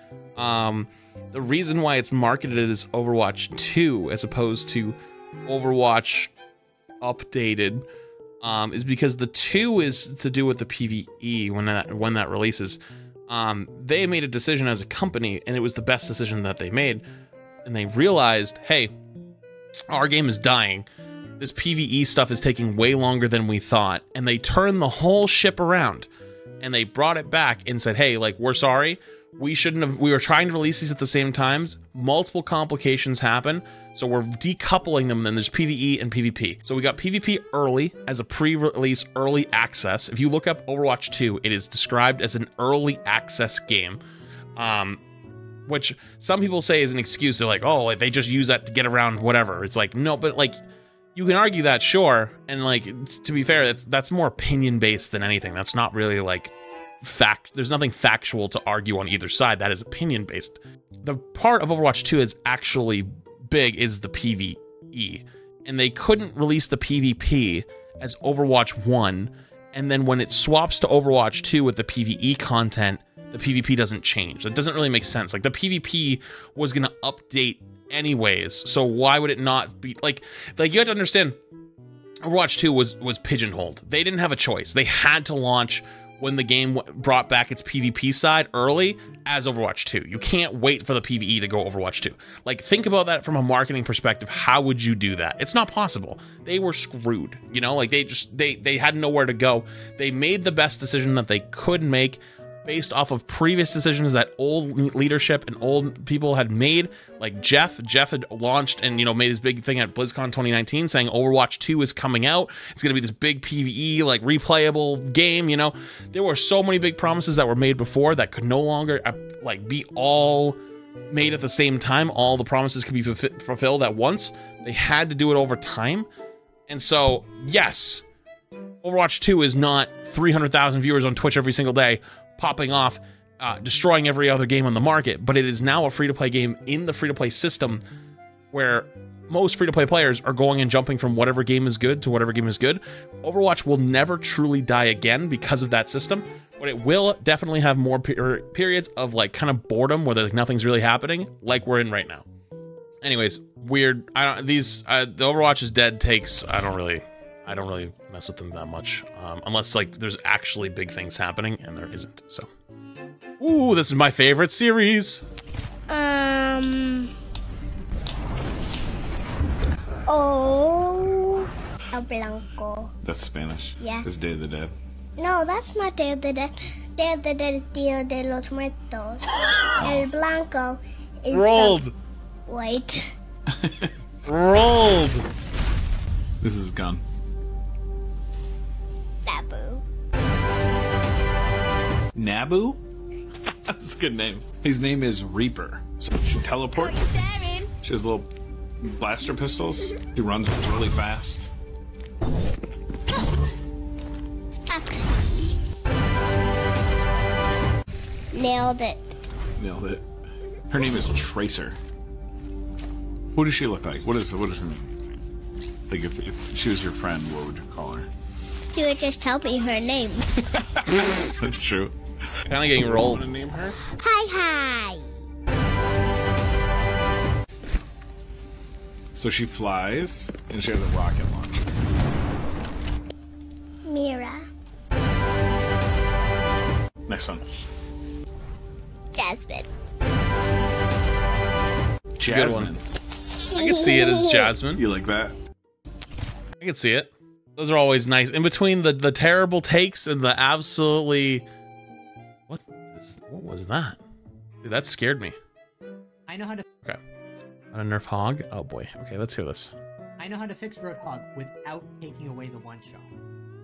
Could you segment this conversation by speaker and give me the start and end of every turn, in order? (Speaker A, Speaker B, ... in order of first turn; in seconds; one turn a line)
Speaker A: 0.3-6.3
Speaker A: 7.0-7.9
Speaker A: 8.4-17.1
Speaker A: 17.6-18.9
Speaker A: 19.9-20.9
Speaker A: 21.4-26.1
Speaker A: 26.6-44.0
Speaker A: 44.6-45.0
Speaker A: 45.6-50.6
Speaker A: 51.1-81.4
Speaker A: 82.2-120.6
Speaker A: 121.1-126.1
Speaker A: 126.7-128.0
Speaker A: 128.8-137.8
Speaker A: 138.5-152.2
Speaker A: 153.0-162.5
Speaker A: 163.4-165.2
Speaker B: 165.9-167.1
Speaker B: 170.1-172.9
Speaker C: 173.0-174.7
Speaker B: 173.8-174.1
Speaker B: 175.2-179.2
Speaker C: 179.7-180.1
Speaker B: 179.8-181.9
Speaker A: 181.3-181.9
Speaker B: 182.5-183.1
Speaker A: 184.3-185.2
Speaker C: 186.4-187.0
Speaker B: 189.2-189.8
Speaker C: 192.1-192.8
Speaker C: 193.7-197.2
Speaker B: 196.8-197.6
Speaker C: 197.8-198.3
Speaker C: 198.8-201.5
Speaker B: 204.7-205.5
Speaker B: 208.3-209.0
Speaker C: 209.6-210.0
Speaker C: 210.7-211.8
Speaker C: 213.3-214.9
Speaker C: 215.9-218.1
Speaker B: 218.7-220.2
Speaker C: 220.8-221.9
Speaker A: 222.5-223.3
Speaker C: 222.6-223.8
Speaker B: 223.9-225.0
Speaker C: 229.1-231.6
Speaker B: 233.8-234.4
Speaker C: 237.1-237.4
Speaker B: 239.1-239.7
Speaker A: 242.2-242.7
Speaker C: 242.2-242.8
Speaker B: 243.5-244.5
Speaker A: 243.5-244.8
Speaker C: 244.7-245.4
Speaker A: 246.6-251.4
Speaker A: 252.5-254.0
Speaker A: 254.6-255.3
Speaker D: 256.3-256.6
Speaker A: 257.7-259.7
Speaker D: 260.2-263.1